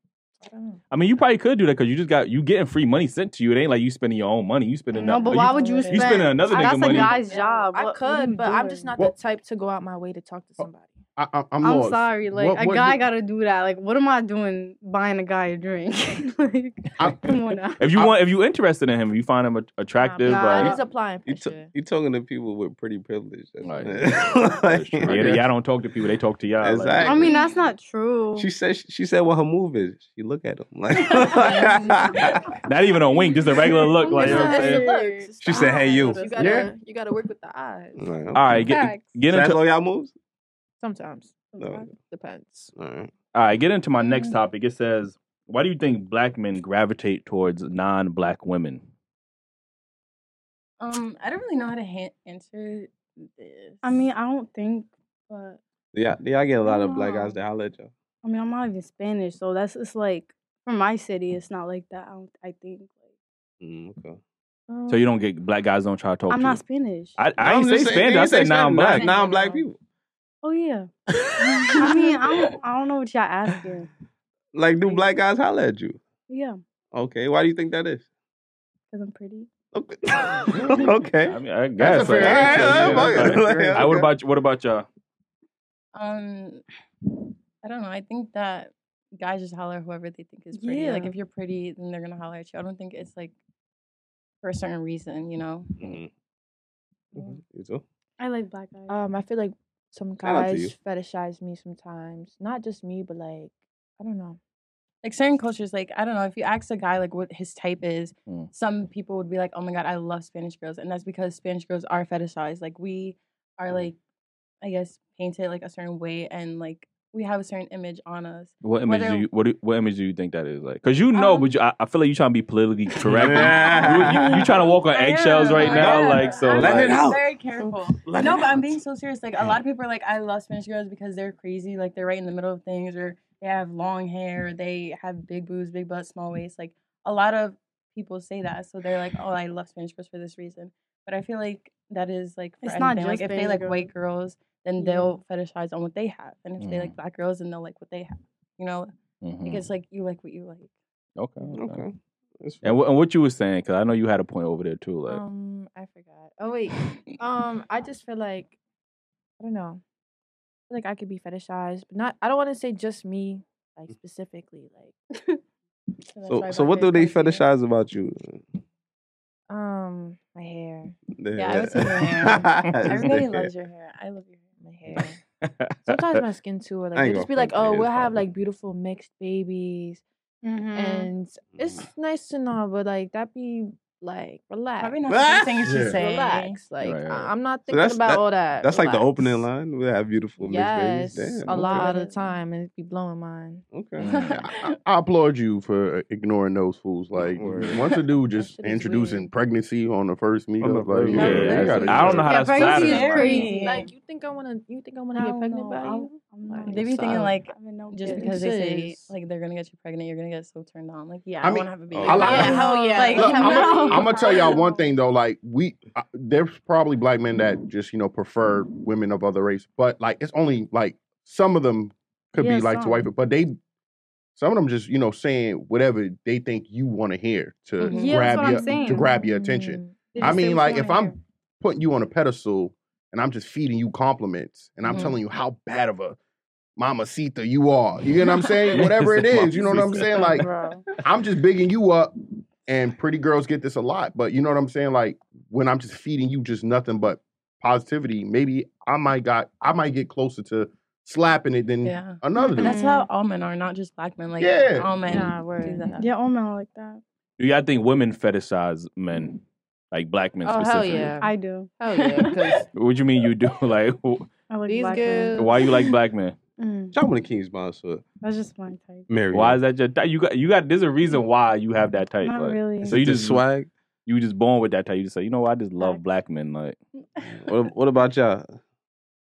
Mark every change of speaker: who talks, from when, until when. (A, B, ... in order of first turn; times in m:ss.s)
0:00.4-0:00.8 A
0:00.9-0:07.1 B
0:04.9-0:08.9 C
0:05.3-0:06.1 D
0:06.4-0:11.0 A
0:10.6-0:13.0 E
0:11.6-0:17.8 C
0:17.0-0:17.3 E
0:17.8-0:20.8 B
0:20.0-0:21.7 A
0:20.2-0:20.8 C
0:21.2-0:25.5 F
0:23.6-0:27.3 B
0:26.6-0:27.4 F
0:27.0-0:28.5 C
0:28.4-0:32.5 F
0:31.2-0:31.8 C
0:32.6-0:34.9 B
0:33.7-0:36.4 C
0:34.1-0:38.0 A
0:35.4-0:36.6 F
0:35.5-0:36.6 D
0:36.4-0:36.7 E
0:38.0-0:40.1 F
0:38.3-0:39.6 B
0:38.7-0:39.2 C
0:40.8-0:42.7 A
0:41.5-0:41.8 C
0:41.6-0:41.9 F
0:42.8-0:43.1 F
0:43.3-0:48.8 B
0:44.0-0:44.3 C
0:50.8-0:54.0 D
0:53.8-0:55.6 C
0:55.9-0:57.9 F
0:56.6-0:57.4 C
0:58.2-1:03.0 C
1:03.6-1:04.2 F
1:04.7-1:05.1 A
1:04.9-1:06.6 B
1:06.3-1:07.3 C
1:07.2-1:09.0 B
1:07.4-1:09.8 F
1:09.0-1:09.6 C
1:09.0-1:09.4 D
1:10.4-1:10.9 C
1:11.3-1:12.5 F
1:11.4-1:13.9 C
1:14.5-1:16.0 F
1:16.3-1:16.6 C
1:16.9-1:18.0 F
1:18.9-1:19.5 C
1:19.7-1:24.1 F
1:21.2-1:24.8 B
1:21.8-1:23.8 E
1:25.9-1:26.6 D
1:27.6-1:33.3 D
1:30.5-1:31.1 C
1:34.4-1:35.9 D
1:35.8-1:36.1 F
1:37.1-1:37.8 F
1:38.2-1:38.9 C
1:38.9-1:44.4 A
1:40.2-1:40.7 F
1:45.0-1:54.0 D
1:54.6-1:59.2 D
1:58.6-2:07.0 B
2:01.1-2:01.5 D
2:03.0-2:04.6 F
2:03.2-2:28.9 D
2:05.6-2:07.4 F
2:08.0-2:08.8 F
2:22.6-2:23.9 C
2:24.8-2:25.1 C
2:26.6-2:26.9 B
2:29.2-2:29.6 B
2:29.4-2:30.7 D
2:31.2-2:31.8 B
2:31.5-2:32.7 F
2:32.6-2:35.2 B
2:35.1-2:38.5 A
2:39.4-2:39.8 A
2:40.7-2:44.9 A
2:46.1-2:47.4 D
2:46.3-2:48.4 F
2:49.5-2:51.0 A
2:51.2-2:53.5 F
2:51.4-2:54.4 D
2:54.6-2:55.2 A
2:55.0-2:56.2 B
2:55.8-3:00.0 A
2:56.9-2:58.1 F
3:00.4-3:01.1 C
3:00.7-3:05.0 A
3:01.5-3:01.8 F
3:04.8-3:06.6 D
3:05.1-3:05.8 F
3:05.6-3:05.9 E
3:05.7-3:09.5 A
3:06.8-3:07.3 B
3:07.7-3:11.9 F
3:10.4-3:13.6 A
3:13.7-3:14.2 F
3:14.0-3:14.3 B
3:14.1-3:14.5 D
3:14.4-3:22.3 E
3:17.2-3:17.8 F
3:18.3-3:19.3 A
3:20.6-3:22.3 F
3:21.0-3:23.4 B
3:22.2-3:23.8 C
3:22.3-3:23.9 D
3:23.3-3:27.3 A
3:25.2-3:26.1 D
3:25.4-3:28.6 C
3:26.7-3:34.5 D
3:28.0-3:29.1 A
3:31.4-3:43.6 E
3:31.9-3:32.6 F
3:32.2-3:34.7 A
3:32.3-3:34.6 C
3:42.4-3:43.0 C
3:44.4-3:56.2 E
3:47.8-3:48.5 D
3:47.8-3:49.1 C
3:48.4-3:50.4 A
3:50.1-3:51.2 C
3:54.9-3:55.1 D
3:56.8-4:00.5 E
3:58.7-4:00.4 B
4:00.2-4:00.8 C
4:01.0-4:02.1 E
4:02.6-4:12.8 E
4:11.8-4:16.1 D
4:12.4-4:13.1 C
4:14.4-4:15.1 E
4:15.0-4:16.0 A
4:16.0-4:17.0 C
4:17.4-4:19.4 B
4:19.9-4:21.1 B
4:20.4-4:22.7 A
4:21.2-4:22.6 C
4:22.7-4:24.3 B
4:24.5-4:25.8 C
4:24.7-4:25.5 A
4:25.4-4:26.4 B
4:26.6-4:26.9 C
4:26.9-4:28.0 F
4:28.2-4:29.1 C
4:29.1-4:29.6 F
4:29.3-4:33.4 B
4:32.2-4:33.0 C
4:32.8-4:33.7 F
4:34.0-4:36.8 B
4:37.4-4:38.6 F